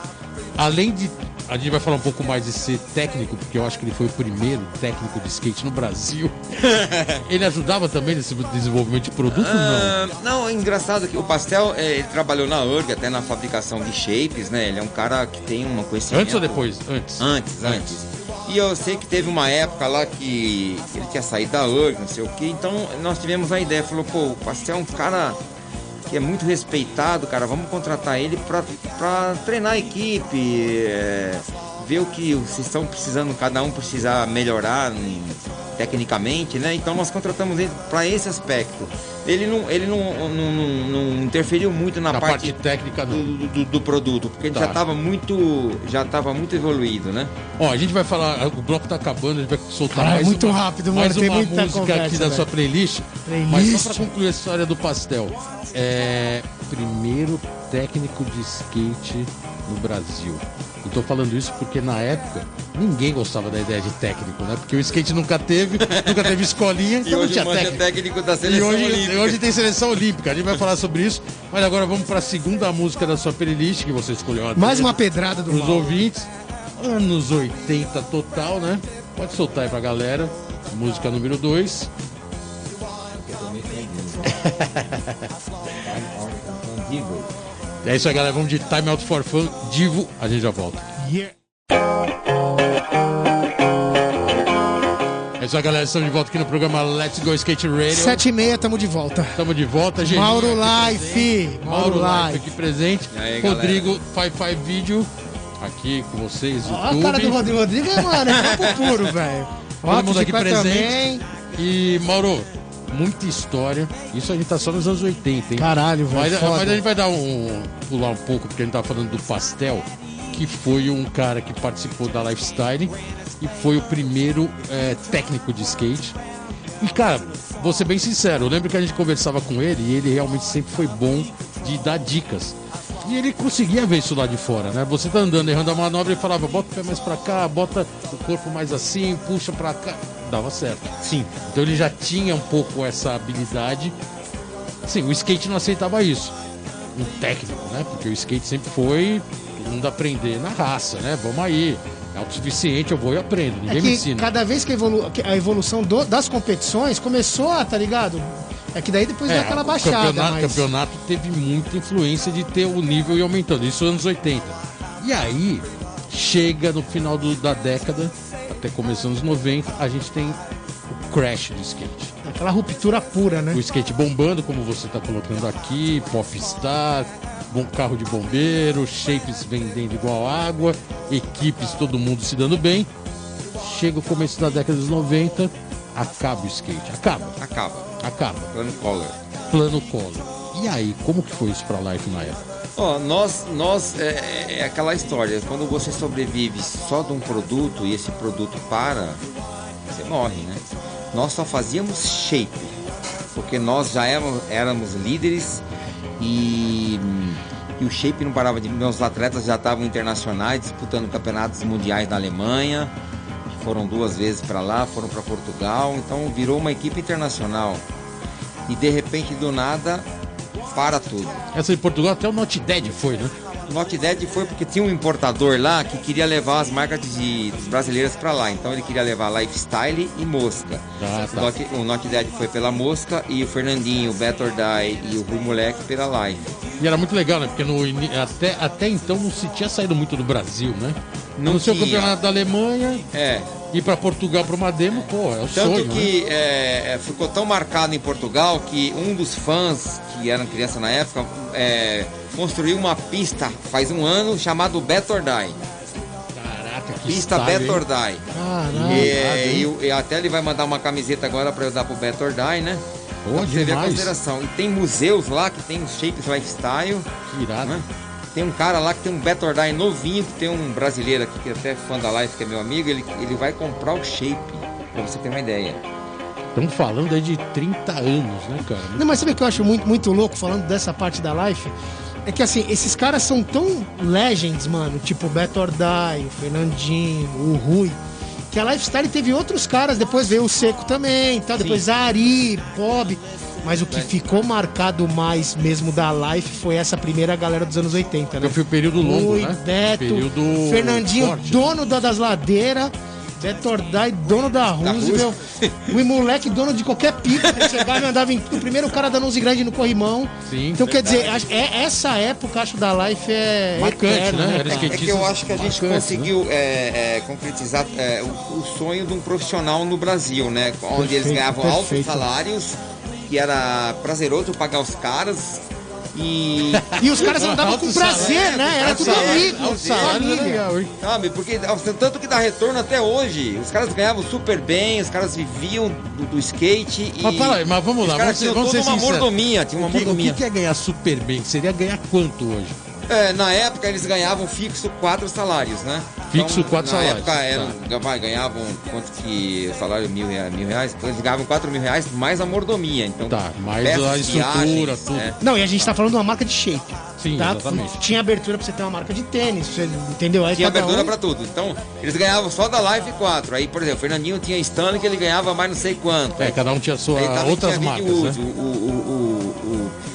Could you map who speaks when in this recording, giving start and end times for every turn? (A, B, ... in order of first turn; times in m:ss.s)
0:00.6-0:06.4 A
0:06.6-0:07.2 B
0:07.2-0:09.9 A
0:09.3-0:16.6 B
0:16.1-0:18.0 A
0:17.2-0:25.4 B
0:26.1-0:42.5 B
0:42.1-0:43.3 A
0:43.1-0:47.3 B
0:44.5-0:44.8 A
0:47.6-1:07.8 A
0:49.9-0:52.5 C
0:53.2-0:54.1 C
1:05.8-1:06.3 B
1:07.0-1:09.4 B
1:08.4-1:16.3 A
1:14.6-1:16.0 C
1:16.8-1:21.9 A
1:23.1-1:24.3 B
1:24.3-1:25.2 A
1:25.7-1:27.3 B
1:27.8-1:30.9 A
1:31.0-1:31.3 C
1:35.4-1:38.2 A
1:37.9-1:39.4 C
1:39.4-1:45.1 A
1:40.0-1:42.4 C
1:43.1-1:43.9 B
1:45.6-1:48.2 A
1:46.6-1:51.2 C
1:49.9-1:51.0 A
1:51.5-2:06.2 A
1:55.6-1:56.8 C
2:06.8-2:20.9 A
2:21.0-2:21.3 B
2:21.4-2:23.9 A
2:24.9-2:26.3 A
2:26.9-2:34.3 A
2:33.7-2:40.6 C
2:39.3-2:50.4 A
2:50.9-2:52.1 A
2:52.2-2:53.6 C
2:53.5-3:02.9 A
3:03.6-3:07.4 A
3:07.4-3:07.9 B
3:08.0-3:08.5 A
3:08.5-3:09.2 B
3:09.5-3:12.5 A
3:12.8-3:19.2 B
3:19.9-3:20.6 B
3:21.1-3:22.7 B
3:23.4-3:25.6 B
3:26.2-3:32.9 B
3:33.5-3:37.8 B
3:38.7-3:40.0 B
3:40.7-3:41.4 B
3:41.5-3:43.3 A
3:43.7-3:56.6 B
3:51.0-3:51.5 A
3:56.8-4:03.0 A
4:01.4-4:02.1 B
4:03.1-4:03.5 B
4:03.7-4:06.1 A
4:04.9-4:15.6 B
4:16.3-4:17.8 A
4:17.1-4:18.2 B
4:18.3-4:19.1 C
4:18.7-4:19.7 A
4:18.8-4:22.8 B
4:23.2-4:24.1 A
4:23.3-4:27.1 B
4:27.3-4:27.8 A
4:27.6-4:35.8 B
4:36.5-4:39.3 A
4:39.0-4:41.7 C
4:42.2-4:48.0 C
4:48.5-5:15.0 C
4:51.6-4:51.8 B
4:58.4-5:01.7 A
5:04.8-5:05.9 B
5:07.4-5:07.8 B
5:10.5-5:10.9 A
5:10.9-5:11.4 B
5:13.7-5:16.3 A
5:14.7-5:25.6 B
5:21.0-5:22.2 C
5:26.1-5:30.4 B
5:26.7-5:30.9 A
5:27.0-5:30.6 C
5:31.0-5:40.4 B
5:37.2-5:42.8 A
5:43.1-5:55.4 B
5:46.3-5:47.8 A
5:53.3-5:55.4 A
5:55.4-6:01.1 C
5:57.2-5:58.0 A
6:00.5-6:06.6 B
6:06.4-6:08.4 A
6:07.1-6:09.9 B